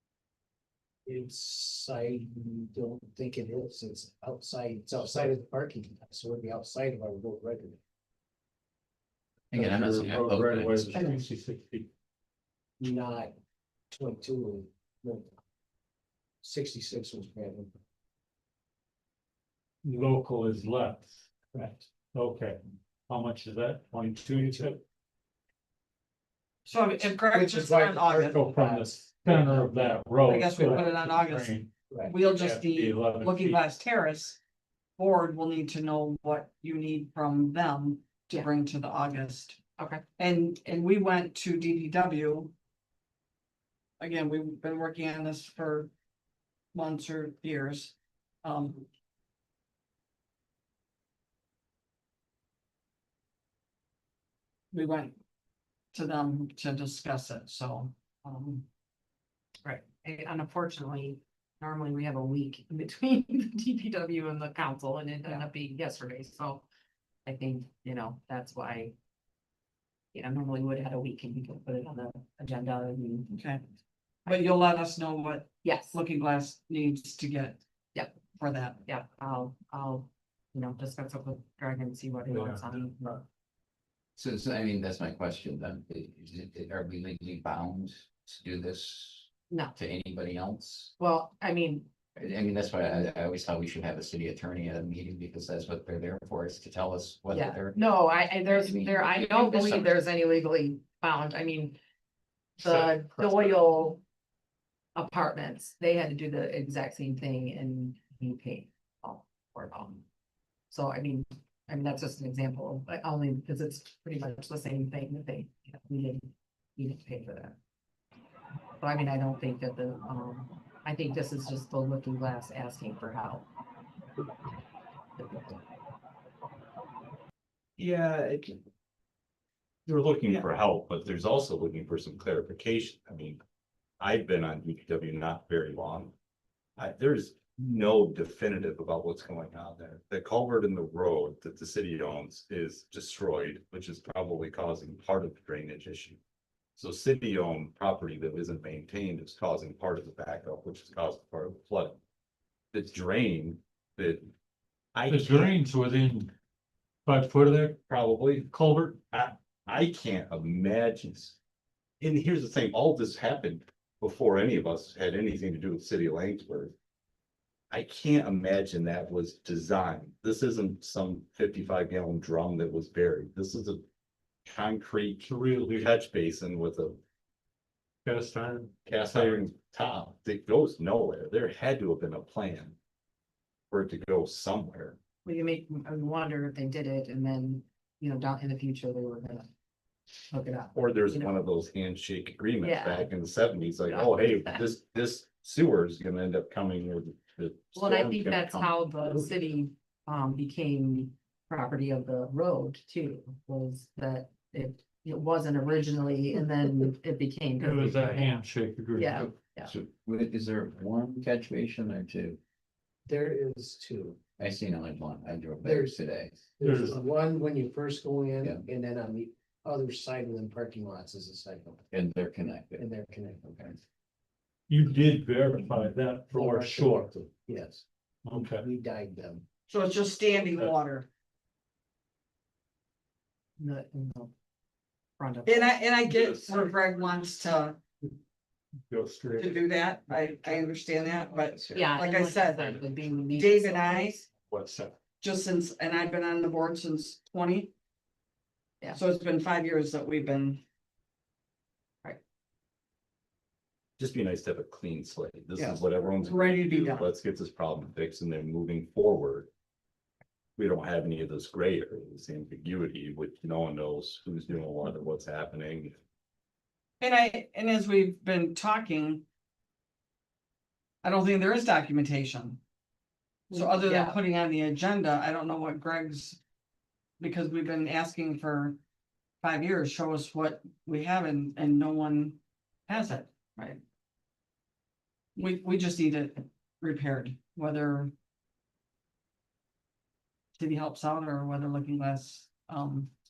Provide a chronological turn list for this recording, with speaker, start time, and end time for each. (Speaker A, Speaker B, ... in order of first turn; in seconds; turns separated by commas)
Speaker A: 1.1-7.8, Speaker B: 9.5-11.2, Speaker C: 9.5-11.9, Speaker A: 12.8-13.3, Speaker A: 13.9-15.4, Speaker A: 16.4-17.8, Speaker C: 19.8-21.3, Speaker A: 21.5-21.9, Speaker C: 22.1-24.8, Speaker A: 24.3-24.7, Speaker D: 26.7-28.5, Speaker A: 27.0-30.0, Speaker C: 28.3-31.7, Speaker D: 30.2-34.4, Speaker A: 31.9-32.2, Speaker C: 32.2-33.6, Speaker D: 35.0-39.6, Speaker E: 39.8-40.0, Speaker D: 40.2-42.5, Speaker D: 44.0-45.9, Speaker D: 46.7-48.9, Speaker D: 54.7-55.2, Speaker D: 55.9-58.7, Speaker E: 59.6-66.7, Speaker E: 67.3-68.9, Speaker E: 70.1-73.3, Speaker D: 73.3-73.6, Speaker D: 74.3-77.6, Speaker E: 75.6-76.0, Speaker D: 78.4-78.8, Speaker E: 78.8-83.2, Speaker C: 82.3-83.1, Speaker B: 84.2-90.9, Speaker E: 89.5-89.8, Speaker E: 91.0-91.9, Speaker B: 92.2-97.8, Speaker E: 97.3-101.8, Speaker B: 98.5-99.9, Speaker E: 102.6-104.0, Speaker E: 105.0-110.0, Speaker E: 110.7-117.6, Speaker E: 118.8-123.5, Speaker E: 125.2-125.6, Speaker F: 127.8-128.5, Speaker F: 129.9-133.4, Speaker F: 134.0-136.1, Speaker F: 136.8-146.2, Speaker F: 146.8-152.0, Speaker F: 152.7-154.3, Speaker F: 154.9-155.6, Speaker C: 155.1-156.3, Speaker C: 157.1-157.8, Speaker F: 157.9-158.5, Speaker C: 158.4-159.0, Speaker F: 159.1-161.4, Speaker F: 162.0-166.8, Speaker F: 167.7-173.8, Speaker F: 174.5-177.0, Speaker C: 175.2-175.9, Speaker C: 178.1-179.5, Speaker F: 178.8-182.8, Speaker F: 183.7-185.0, Speaker E: 185.2-189.5, Speaker E: 190.3-191.4, Speaker F: 190.7-198.6, Speaker E: 192.6-193.1, Speaker E: 193.8-194.6, Speaker E: 197.8-208.4, Speaker B: 198.5-199.3, Speaker C: 207.6-209.3, Speaker E: 208.9-209.7, Speaker B: 209.2-212.4, Speaker A: 213.1-214.2, Speaker B: 214.4-216.6, Speaker A: 215.6-216.0, Speaker A: 216.6-221.9, Speaker C: 216.6-217.0, Speaker B: 221.9-222.9, Speaker A: 222.8-223.8, Speaker C: 224.7-227.2, Speaker A: 226.3-229.4, Speaker C: 228.2-228.7, Speaker D: 229.7-231.1, Speaker E: 233.6-234.3, Speaker E: 235.2-235.8, Speaker D: 235.5-237.8, Speaker C: 236.1-236.6, Speaker C: 238.9-239.6, Speaker D: 239.4-244.2, Speaker E: 241.7-244.3, Speaker C: 244.5-245.0, Speaker D: 245.2-247.7, Speaker D: 248.9-250.6, Speaker F: 254.0-259.5, Speaker D: 255.6-257.1, Speaker F: 260.6-265.9, Speaker D: 267.0-269.2, Speaker D: 271.0-272.6, Speaker E: 273.5-274.2, Speaker D: 273.5-276.4, Speaker D: 277.2-278.8, Speaker D: 279.4-283.3, Speaker D: 285.4-288.1, Speaker D: 290.6-293.1